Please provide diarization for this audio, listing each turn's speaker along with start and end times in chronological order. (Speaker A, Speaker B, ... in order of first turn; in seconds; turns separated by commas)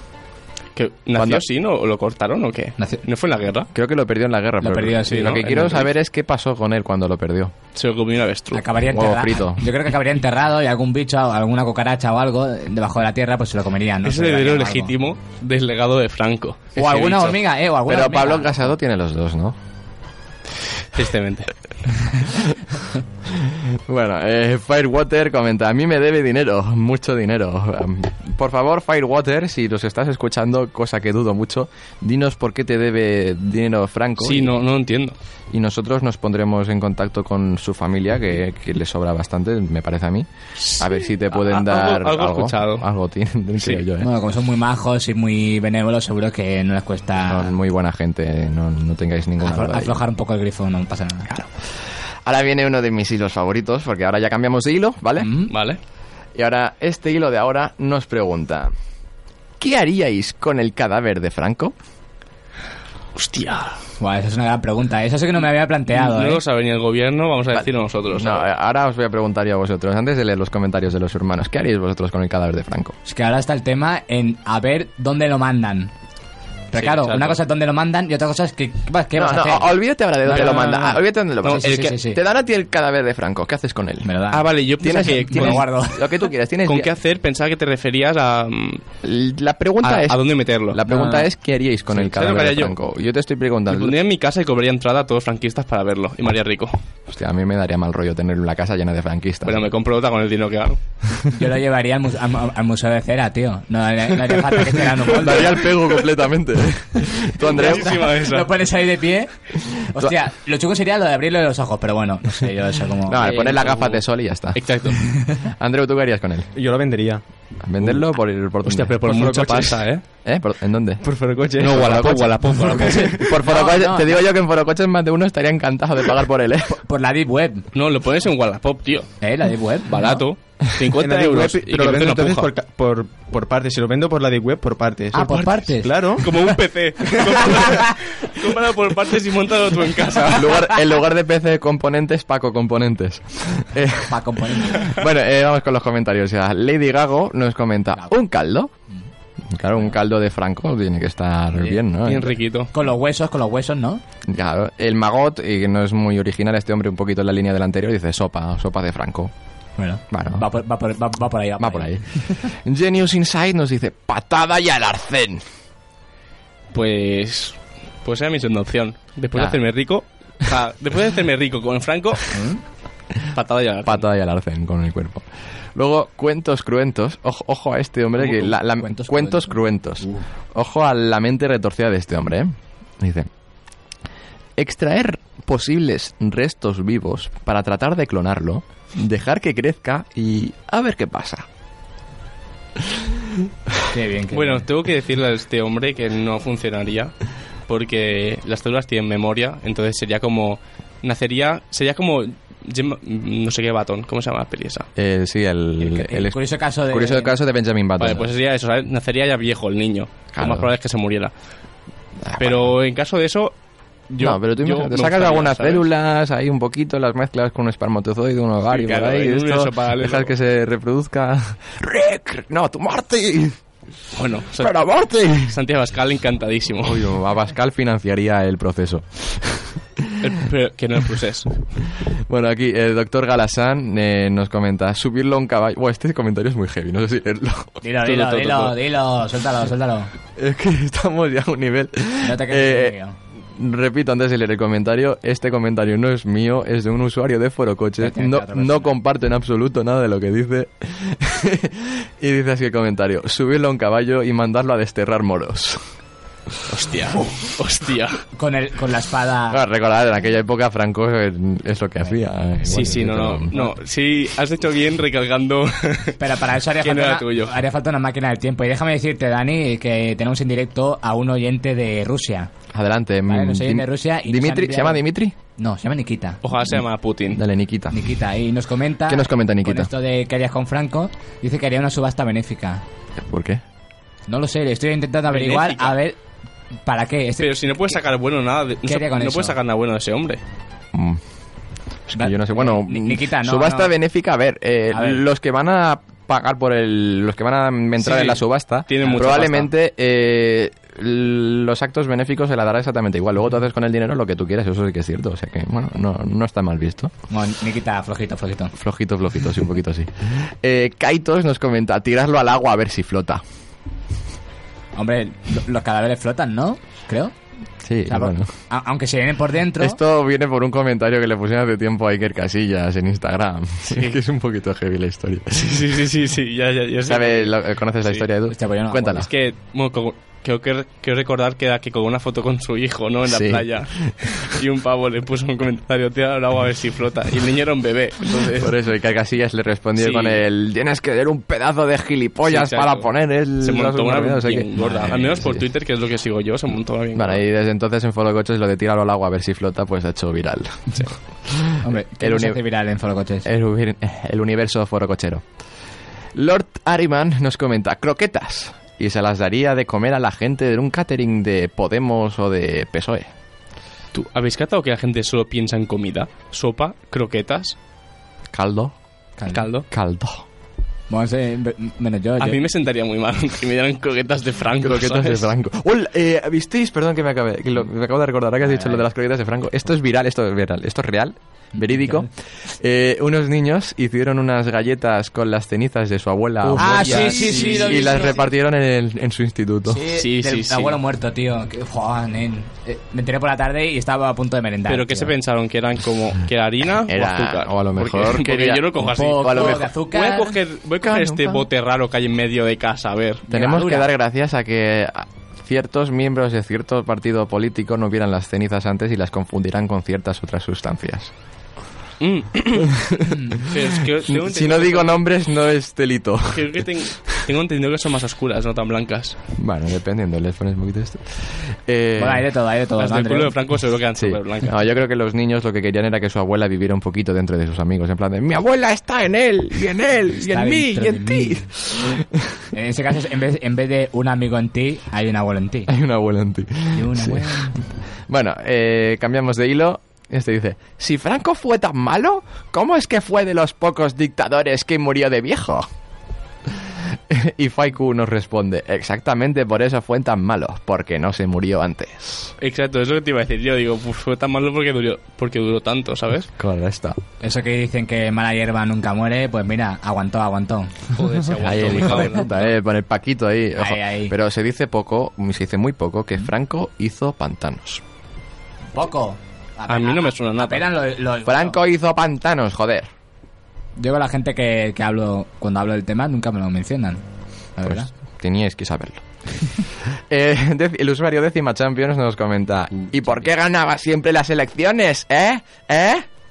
Speaker A: 0.8-3.7, Speaker B: 1.1-1.4, Speaker B: 3.7-7.5, Speaker C: 4.6-5.7, Speaker A: 5.1-5.9, Speaker A: 7.8-8.7, Speaker C: 8.5-14.9, Speaker B: 8.9-9.6, Speaker A: 14.0-17.4, Speaker C: 16.8-18.6, Speaker B: 17.9-19.6, Speaker A: 20.9-21.5, Speaker B: 23.3-34.6, Speaker A: 34.2-35.1, Speaker B: 35.5-44.1, Speaker A: 40.6-42.9, Speaker C: 44.0-47.5, Speaker B: 47.3-50.0, Speaker C: 49.4-51.5, Speaker B: 52.2-55.3, Speaker C: 55.2-55.5, Speaker A: 55.5-55.8, Speaker B: 56.4-58.7, Speaker B: 59.6-61.8, Speaker A: 63.1-63.8, Speaker C: 64.0-66.4, Speaker A: 65.9-68.5, Speaker B: 67.5-73.0, Speaker C: 73.1-75.9, Speaker C: 76.7-82.2, Speaker A: 76.8-77.4, Speaker B: 79.2-84.1, Speaker A: 80.3-80.7, Speaker A: 81.4-82.0, Speaker C: 84.0-86.1, Speaker A: 84.3-85.7, Speaker B: 84.8-86.9, Speaker A: 86.7-88.8, Speaker B: 89.0-94.0, Speaker A: 89.8-90.8, Speaker C: 90.9-91.2, Speaker A: 91.9-92.7, Speaker A: 93.7-96.8, Speaker B: 97.1-99.7, Speaker A: 99.5-100.8, Speaker C: 101.3-105.7, Speaker B: 105.2-108.1, Speaker A: 107.4-108.5, Speaker C: 107.5-109.3, Speaker C: 109.9-113.6, Speaker B: 113.1-114.8, Speaker A: 113.2-114.0, Speaker A: 114.5-115.0, Speaker B: 115.4-116.5, Speaker D: 116.5-117.2, Speaker B: 117.6-119.5, Speaker A: 118.7-120.0, Speaker D: 119.0-119.8, Speaker B: 120.2-121.0, Speaker D: 121.0-122.1, Speaker B: 121.6-126.8, Speaker A: 121.6-123.3, Speaker D: 122.7-123.2, Speaker C: 123.4-124.2, Speaker C: 126.8-127.7, Speaker A: 127.7-129.2, Speaker C: 129.2-130.2, Speaker A: 129.9-132.5, Speaker D: 131.0-136.3, Speaker C: 135.1-136.1, Speaker A: 136.2-140.7, Speaker B: 140.3-148.7, Speaker C: 144.1-144.9, Speaker B: 149.5-152.3, Speaker A: 152.1-152.7, Speaker C: 152.7-154.0, Speaker B: 154.3-159.3, Speaker C: 159.8-162.5, Speaker B: 160.1-160.4, Speaker B: 161.6-165.4, Speaker A: 166.7-172.3, Speaker B: 169.3-169.6, Speaker C: 172.3-172.6, Speaker A: 173.3-174.0, Speaker B: 173.8-183.3, Speaker A: 178.2-178.4, Speaker C: 178.7-180.1, Speaker B: 184.6-191.5, Speaker C: 193.9-194.7, Speaker A: 194.3-197.1, Speaker A: 197.7-204.9, Speaker B: 205.0-208.3, Speaker C: 205.8-207.3, Speaker A: 208.0-211.3, Speaker B: 210.3-210.7, Speaker B: 212.2-212.7, Speaker A: 212.4-213.5, Speaker A: 214.1-215.9, Speaker B: 214.2-223.6, Speaker A: 218.7-220.3, Speaker A: 224.2-227.0, Speaker B: 224.6-225.6, Speaker B: 226.8-229.8, Speaker A: 230.2-231.7, Speaker B: 232.3-237.8, Speaker C: 237.8-240.1, Speaker A: 238.1-238.8, Speaker B: 240.4-243.0, Speaker C: 242.2-243.2, Speaker B: 243.6-255.8, Speaker C: 248.0-248.9, Speaker A: 256.7-258.2, Speaker C: 258.4-259.6, Speaker B: 259.5-263.7, Speaker A: 262.7-266.2, Speaker C: 266.2-272.5, Speaker A: 266.8-267.5, Speaker B: 272.7-275.4, Speaker C: 273.3-275.0, Speaker C: 275.6-276.4, Speaker A: 276.4-277.4, Speaker B: 277.3-278.0, Speaker C: 277.9-282.8, Speaker B: 279.1-279.9, Speaker B: 283.2-283.6, Speaker C: 284.3-286.2, Speaker A: 285.3-286.0, Speaker C: 286.9-287.5, Speaker A: 287.4-290.4, Speaker C: 288.9-289.6, Speaker B: 290.9-291.2, Speaker C: 292.1-293.9, Speaker B: 292.2-307.1, Speaker C: 294.9-295.2, Speaker A: 298.0-299.7, Speaker C: 307.3-308.7, Speaker B: 308.8-313.4, Speaker C: 315.0-317.3, Speaker B: 317.8-318.5, Speaker C: 318.1-320.0, Speaker B: 319.8-325.7, Speaker A: 323.9-324.2, Speaker A: 325.5-328.3, Speaker B: 327.0-329.3, Speaker C: 328.5-329.2, Speaker A: 329.1-338.7, Speaker B: 333.3-334.1, Speaker B: 338.6-345.6, Speaker A: 340.0-340.4, Speaker A: 342.5-347.4, Speaker C: 344.8-345.2, Speaker B: 347.1-350.9, Speaker B: 351.5-352.6, Speaker C: 351.8-353.4, Speaker B: 353.4-355.4, Speaker B: 356.4-363.3, Speaker A: 364.1-367.8, Speaker B: 368.5-368.9, Speaker C: 369.4-369.7, Speaker A: 369.5-369.9, Speaker B: 369.9-370.4, Speaker C: 371.1-372.6, Speaker A: 372.4-375.5, Speaker B: 374.8-390.1, Speaker C: 378.7-379.0, Speaker C: 381.8-382.3, Speaker A: 386.8-388.2, Speaker C: 386.8-388.4, Speaker C: 389.9-395.4, Speaker A: 390.1-391.0, Speaker A: 394.9-403.5, Speaker B: 397.1-399.9, Speaker C: 399.0-400.6, Speaker B: 401.0-401.7, Speaker C: 403.5-404.1, Speaker B: 403.5-411.3, Speaker A: 412.2-413.0, Speaker A: 413.7-415.2, Speaker B: 414.3-416.8, Speaker A: 416.5-419.4, Speaker B: 419.6-422.4, Speaker C: 422.2-423.6, Speaker A: 423.0-424.8, Speaker B: 424.2-432.6, Speaker C: 430.3-431.7, Speaker C: 432.7-435.9, Speaker B: 435.9-437.8, Speaker C: 436.9-437.8, Speaker B: 438.3-445.9, Speaker B: 447.3-452.5, Speaker A: 452.6-456.5, Speaker B: 456.6-457.2, Speaker C: 457.4-460.9, Speaker A: 461.2-462.7, Speaker B: 461.5-468.0, Speaker C: 463.8-464.3, Speaker C: 468.9-471.8, Speaker A: 469.9-470.9, Speaker B: 471.5-473.1, Speaker C: 474.0-477.2, Speaker C: 477.8-478.1, Speaker B: 477.9-479.2, Speaker B: 480.1-486.3